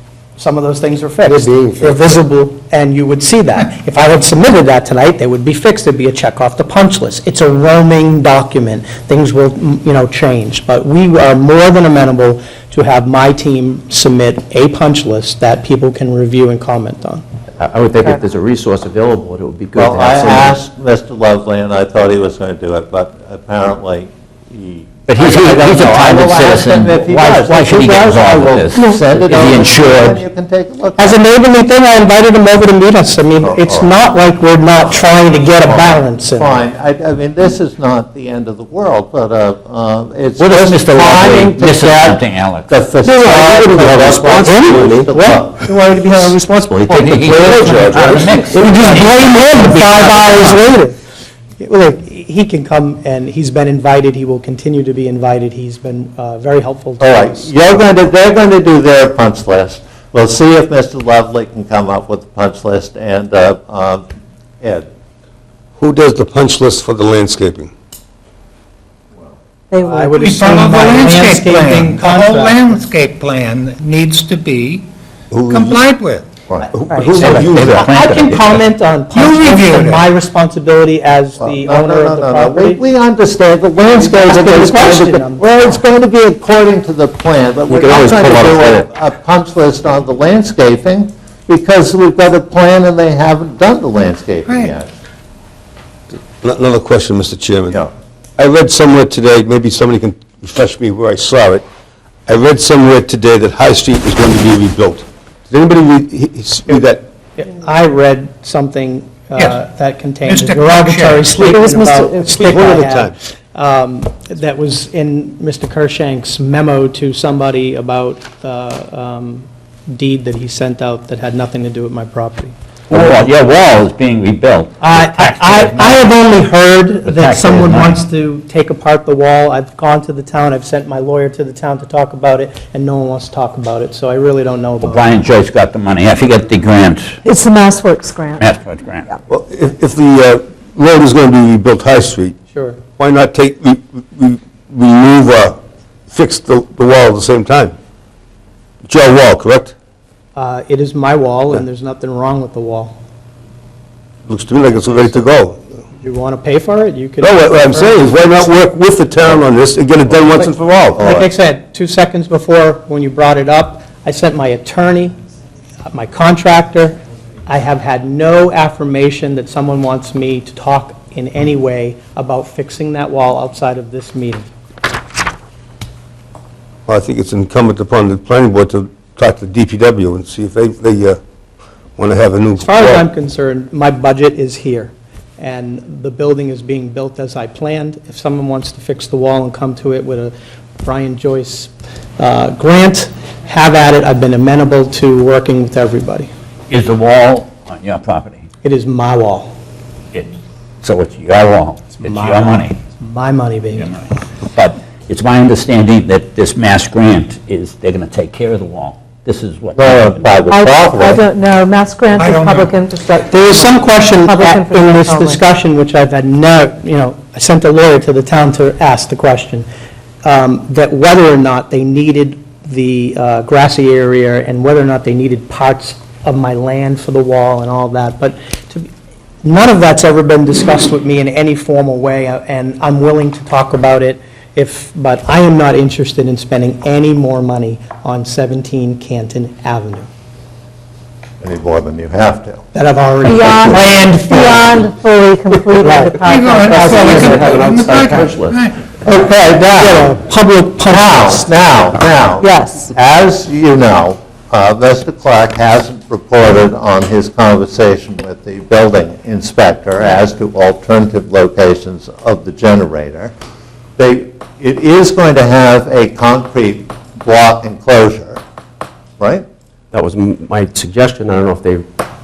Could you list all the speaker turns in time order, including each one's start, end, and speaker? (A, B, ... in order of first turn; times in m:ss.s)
0:00.4-0:17.2 A
0:01.2-0:02.0 B
0:17.6-0:20.6 C
0:19.7-0:31.2 D
0:25.1-0:30.2 E
0:31.0-0:36.6 A
0:33.4-0:34.0 D
0:35.6-0:45.7 D
0:40.4-0:42.7 E
0:43.0-0:45.2 B
0:45.1-0:46.3 A
0:45.6-0:48.3 C
0:46.9-0:50.6 E
0:47.0-0:49.1 B
0:48.5-0:51.0 A
0:51.6-0:57.8 A
0:57.0-1:04.0 D
1:04.6-1:04.9 D
1:05.8-1:07.7 B
1:09.7-1:10.2 F
1:09.8-1:12.9 A
1:10.1-1:14.9 G
1:15.3-1:15.8 B
1:15.5-1:16.2 G
1:16.7-1:18.0 B
1:16.9-1:22.8 A
1:17.1-1:18.6 E
1:19.1-1:20.0 G
1:21.4-1:34.9 D
1:23.8-1:25.8 A
1:27.7-1:28.6 B
1:36.4-1:37.8 B
1:38.4-1:41.6 B
1:42.3-1:47.0 B
1:47.4-2:03.3 A
1:50.2-1:51.6 G
1:51.4-1:52.5 F
1:52.3-1:53.2 B
2:02.9-2:06.0 E
2:04.8-2:15.2 A
2:07.0-2:08.0 E
2:14.8-2:17.2 E
2:17.2-2:18.4 F
2:18.4-2:19.0 E
2:19.3-2:22.4 B
2:22.5-2:22.8 A
2:23.0-2:27.8 B
2:28.8-2:29.7 B
2:30.3-2:33.0 A
2:34.3-2:35.6 B
2:36.0-2:38.4 A
2:37.2-2:41.1 B
2:41.0-2:41.3 D
2:41.0-2:45.1 A
2:45.9-2:54.5 A
2:56.9-3:01.2 B
3:02.0-3:03.0 B
3:02.6-3:16.3 A
3:16.7-3:18.4 E
3:18.6-3:19.5 A
3:20.1-3:22.8 E
3:22.0-3:23.9 A
3:23.8-3:30.3 E
3:29.7-3:31.2 D
3:30.4-3:35.4 F
3:32.1-3:32.8 G
3:33.3-3:39.7 A
3:40.2-3:48.9 A
3:49.4-4:00.1 A
4:01.4-4:02.6 D
4:02.7-4:04.6 A
4:03.2-4:07.5 F
4:05.8-4:06.3 A
4:06.2-4:08.8 G
4:06.8-4:09.2 C
4:07.0-4:07.6 A
4:09.0-4:10.2 D
4:09.8-4:11.5 A
4:10.8-4:23.3 D
4:12.4-4:12.9 F
4:24.0-4:28.4 D
4:29.2-4:29.4 D
4:29.9-4:31.9 C